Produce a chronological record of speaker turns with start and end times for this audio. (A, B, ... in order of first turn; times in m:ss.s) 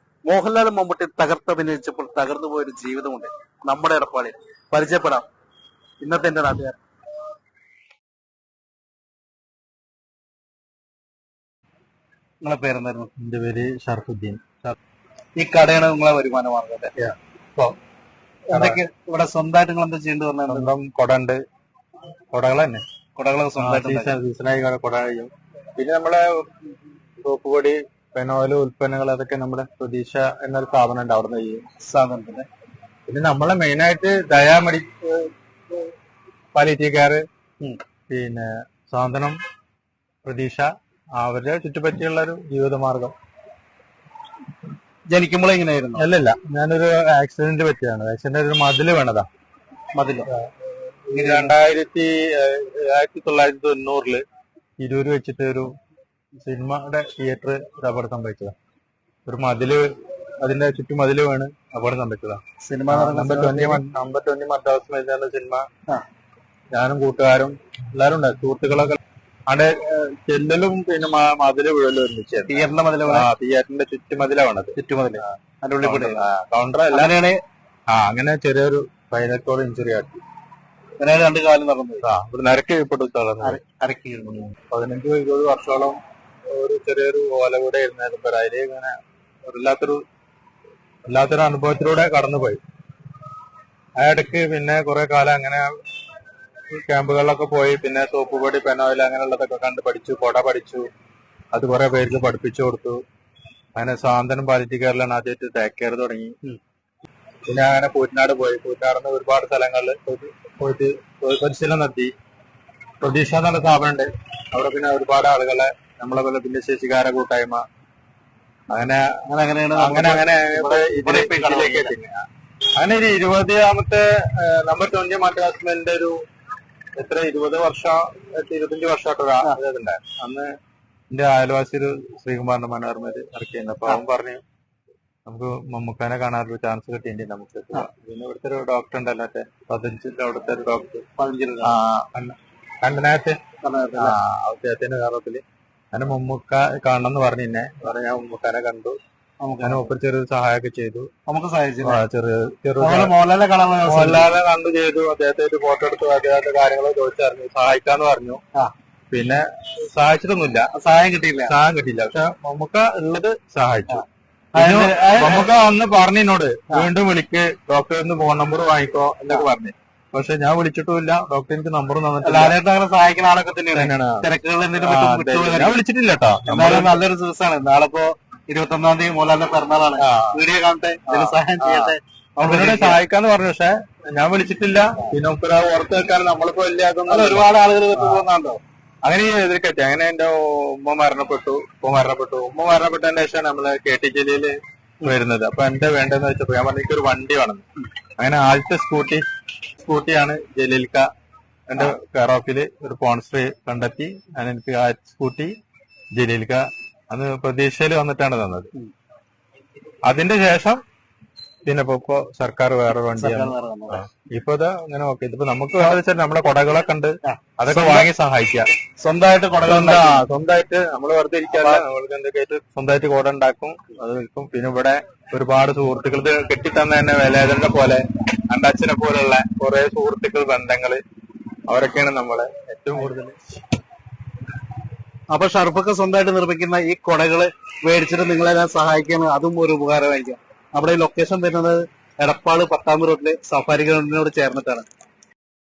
0:00.2-0:05.3 A
0:06.0-0:06.8 A
0:12.4-0:13.1 A
0:13.2-0:14.8 B
0:15.4-0:17.0 A
0:17.0-0:17.8 B
0:18.5-0:18.8 B
0:18.5-0:20.7 A
0:20.5-0:21.4 B
0:22.3-0:22.8 B
0:23.2-0:24.2 A
0:23.6-0:26.5 B
0:27.2-0:31.6 B
0:31.8-0:32.5 A
0:33.1-0:35.9 B
0:36.6-0:37.2 B
0:38.1-0:39.4 B
0:40.2-0:43.2 B
0:45.1-0:46.1 A
0:46.0-0:49.3 B
0:50.0-0:50.3 A
0:51.0-0:54.2 B
0:51.2-0:51.5 A
0:54.8-0:55.7 B
0:56.4-0:58.5 B
0:59.3-0:59.9 B
1:00.4-1:05.7 B
1:02.6-1:03.8 A
1:06.7-1:14.8 B
1:12.5-1:13.3 A
1:14.8-1:16.3 A
1:15.8-1:17.1 B
1:16.9-1:17.4 A
1:17.9-1:20.2 B
1:21.0-1:22.0 A
1:22.0-1:23.6 B
1:23.4-1:24.4 A
1:24.7-1:26.0 B
1:26.5-1:30.0 B
1:31.1-1:32.6 B
1:34.0-1:35.7 B
1:36.7-1:40.9 B
1:41.5-1:43.0 B
1:43.8-1:46.4 B
1:47.5-1:52.1 B
1:53.0-1:57.6 B
1:58.7-1:59.1 B
1:59.3-2:01.9 A
1:59.8-2:02.2 B
2:02.8-2:06.2 B
2:07.0-2:10.5 B
2:11.1-2:14.4 B
2:15.3-2:21.0 B
2:21.2-2:21.7 A
2:21.6-2:23.4 B
2:23.6-2:24.2 A
2:24.0-2:25.4 B
2:25.9-2:29.0 B
2:29.4-2:29.9 A
2:29.6-2:31.1 B
2:31.3-2:32.0 A
2:31.8-2:33.1 B
2:32.8-2:34.3 A
2:33.9-2:38.4 B
2:39.1-2:40.7 B
2:40.7-2:41.5 A
2:41.5-2:44.0 B
2:43.9-2:45.5 A
2:44.6-2:52.6 B
2:52.2-2:55.8 A
2:53.7-2:54.3 B
2:54.8-2:57.0 B
2:56.5-3:03.0 A
3:00.0-3:00.4 B
3:01.1-3:08.2 B
3:07.1-3:08.6 A
3:09.0-3:17.6 B
3:18.2-3:19.2 B
3:19.8-3:21.1 B
3:21.7-3:25.6 B
3:26.2-3:28.7 B
3:30.1-3:30.8 B
3:31.7-3:38.7 B
3:33.2-3:34.0 A
3:37.2-3:38.1 A
3:39.0-3:40.2 A
3:39.6-3:51.0 B
3:41.5-3:41.8 A
3:51.7-3:53.6 B
3:55.3-4:04.9 A